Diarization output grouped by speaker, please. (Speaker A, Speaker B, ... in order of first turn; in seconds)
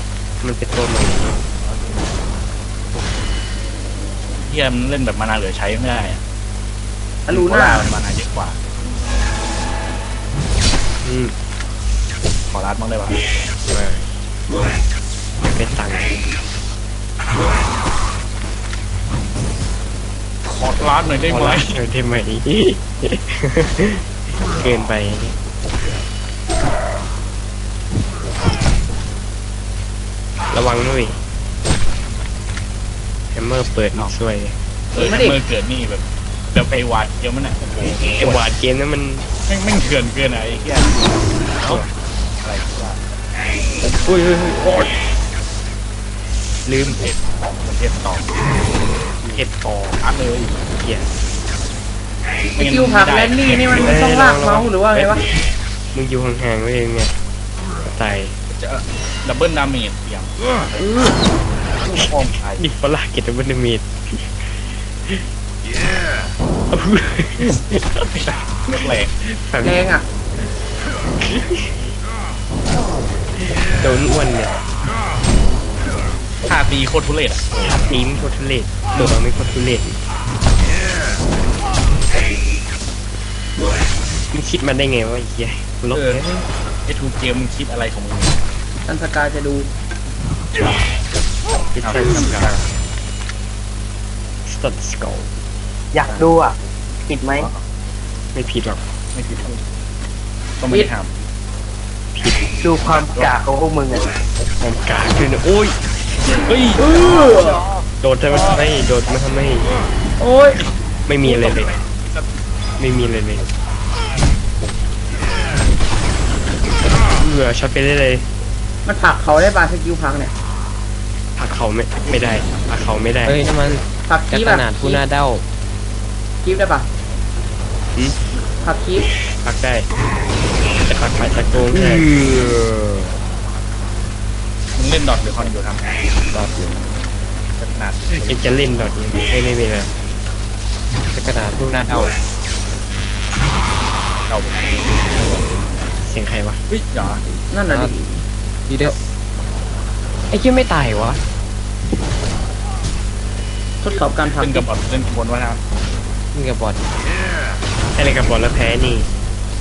Speaker A: 0.4-1.4, 11.0-11.3, 13.7-14.1, 15.4-16.1, 21.3-25.4, 30.5-31.2, 33.3-34.6, 38.2-39.2, 41.6-41.9, 44.0-44.9, 49.3-50.0, 50.8-51.1, 53.8-55.1, 55.9-57.1, 57.9-58.4, 62.0-64.3, 66.7-69.9, 71.2-71.9, 73.4-74.6, 77.7-80.0, 84.3-86.5, 91.7-92.5, 94.5-95.3, 98.3-98.8, 102.1-102.4, 104.6-105.8, 108.0-109.7, 111.1-111.8, 112.8-113.5, 117.2-118.2, 121.4-123.5, 129.4-129.9, 130.8-132.5, 138.1-139.9, 146.0-146.6, 157.9-159.1
Speaker B: 4.4-6.2, 7.3-8.6, 12.5-13.2, 20.4-21.7, 34.9-38.4, 39.5-41.1, 41.6-41.9, 42.4-43.0, 46.7-48.3, 50.0-50.6, 52.6-53.9, 58.6-60.9, 61.9-62.6, 68.1-69.1, 76.4-77.8, 85.9-86.2, 86.9-88.4, 91.8-92.7, 99.1-99.6, 100.6-101.1, 102.9-103.3, 106.4-106.9, 111.2-112.3, 134.8-135.8, 137.6-138.6, 144.3-145.5, 146.7-147.2, 154.4-155.6
Speaker C: 7.3-7.9, 34.9-35.4, 52.6-55.2, 60.8-61.2, 69.6-70.0, 88.9-89.7, 106.8-107.6, 110.2-110.6, 118.9-120.3, 124.1-125.0, 126.4-126.9, 128.6-129.1, 147.5-148.2, 153.8-154.7
Speaker D: 95.9-96.6, 97.1-97.5, 102.6-104.1, 106.9-107.8
Speaker E: 123.2-125.4, 136.3-136.6, 141.1-142.1, 147.7-147.9, 148.7-149.0, 150.3-151.2, 156.3-156.8